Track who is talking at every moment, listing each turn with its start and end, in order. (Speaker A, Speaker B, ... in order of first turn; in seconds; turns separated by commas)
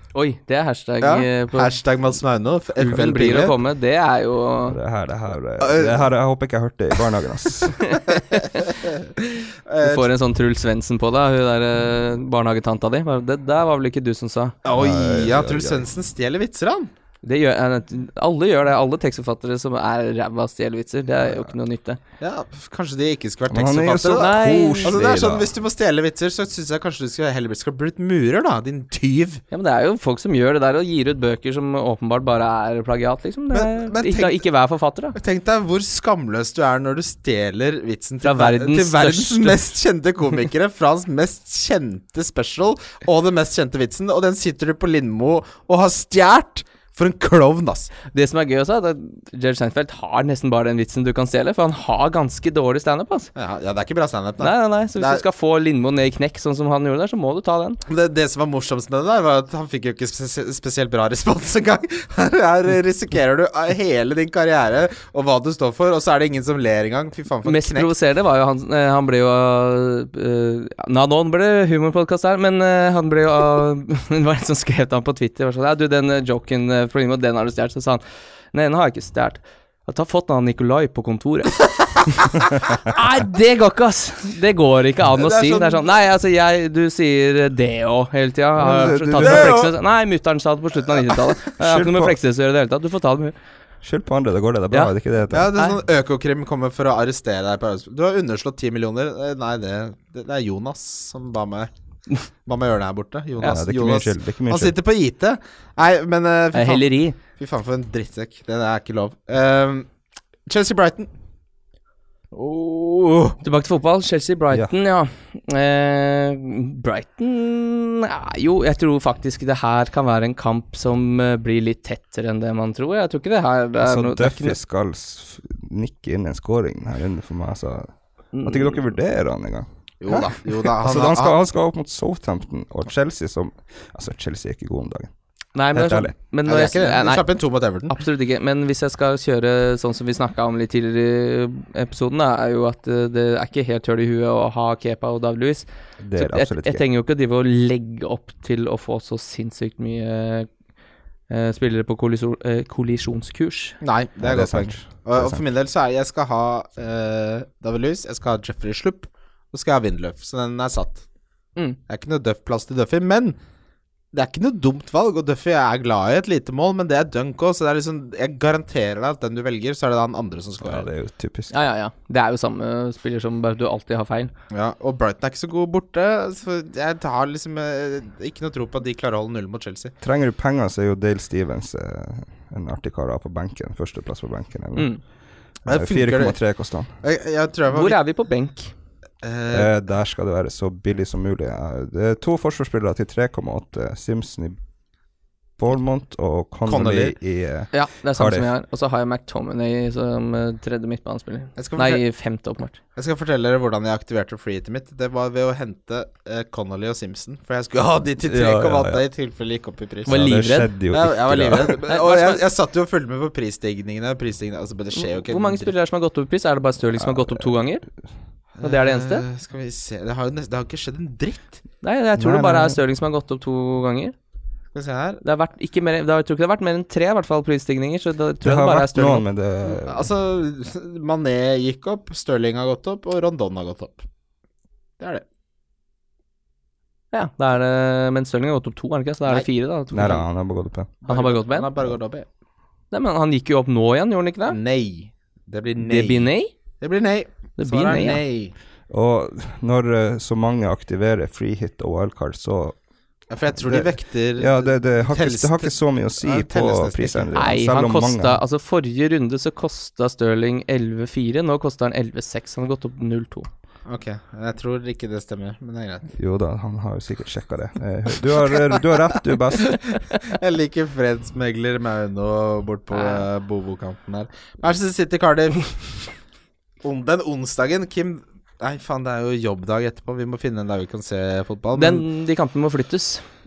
Speaker A: 0.1-1.7, Speaker B: 1.0-3.5, Speaker A: 2.8-4.8, Speaker C: 4.7-8.0, Speaker B: 5.6-6.0, Speaker A: 7.8-8.7, Speaker B: 8.1-10.1, Speaker A: 9.8-14.6, Speaker B: 14.6-16.9, Speaker C: 14.8-15.9, Speaker A: 17.2-22.0, Speaker B: 22.2-29.4, Speaker C: 23.5-25.5, Speaker A: 24.2-25.0, Speaker A: 29.5-35.2, Speaker B: 33.5-34.4, Speaker B: 35.1-47.9, Speaker A: 38.2-39.6, Speaker A: 48.1-53.3, Speaker B: 53.4-55.2, Speaker A: 54.4-57.8, Speaker B: 57.9-67.9, Speaker A: 67.5-78.0, Speaker A: 78.5-93.3, Speaker B: 85.2-86.0, Speaker C: 88.6-89.6, Speaker B: 89.2-89.7, Speaker C: 91.6-92.2, Speaker C: 93.8-95.5, Speaker B: 95.3-101.7, Speaker B: 102.5-109.9, Speaker C: 103.4-104.8, Speaker A: 106.5-107.2, Speaker B: 110.5-111.1, Speaker B: 112.3-113.4, Speaker A: 113.4-124.6, Speaker C: 123.8-127.9, Speaker A: 128.3-128.8, Speaker C: 128.4-135.1, Speaker B: 130.0-131.4, Speaker A: 135.6-137.2, Speaker C: 135.7-136.1, Speaker B: 136.5-137.9, Speaker A: 137.9-150.5, Speaker C: 146.0-146.8, Speaker A: 151.3-153.8, Speaker B: 153.8-161.0, Speaker C: 154.2-155.4, Speaker B: 161.9-163.4, Speaker B: 164.1-170.9, Speaker C: 170.6-171.5, Speaker A: 171.5-174.3, Speaker B: 174.5-179.9, Speaker C: 180.0-184.9, Speaker A: 184.8-185.0, Speaker B: 185.7-186.4, Speaker C: 185.7-186.9, Speaker B: 187.0-188.0, Speaker A: 187.7-188.7, Speaker B: 189.2-189.7, Speaker C: 189.5-194.6, Speaker C: 195.6-198.5, Speaker B: 196.7-197.2, Speaker A: 197.7-202.8, Speaker B: 201.6-202.0, Speaker B: 203.0-210.2, Speaker C: 208.2-209.0, Speaker A: 210.1-210.7, Speaker C: 210.1-211.8, Speaker B: 210.9-215.7, Speaker A: 211.8-212.4, Speaker A: 214.9-217.8, Speaker C: 217.0-217.5, Speaker B: 218.6-221.6, Speaker A: 218.6-219.2, Speaker A: 221.8-224.2, Speaker C: 222.2-222.8, Speaker B: 224.7-225.2, Speaker A: 225.2-229.2, Speaker C: 228.4-230.1, Speaker B: 229.6-234.0, Speaker A: 237.1-240.2, Speaker C: 239.9-240.9, Speaker B: 241.0-242.3, Speaker A: 241.1-241.7, Speaker A: 242.9-244.6, Speaker B: 244.5-246.3, Speaker A: 245.8-246.5, Speaker B: 246.8-248.5, Speaker A: 247.6-248.2, Speaker C: 248.9-252.8, Speaker B: 253.3-257.4, Speaker C: 253.6-258.4, Speaker A: 257.4-263.5, Speaker B: 263.9-266.1, Speaker C: 266.2-269.8, Speaker B: 269.7-276.0, Speaker A: 272.9-273.2, Speaker B: 276.8-282.1, Speaker A: 281.8-283.2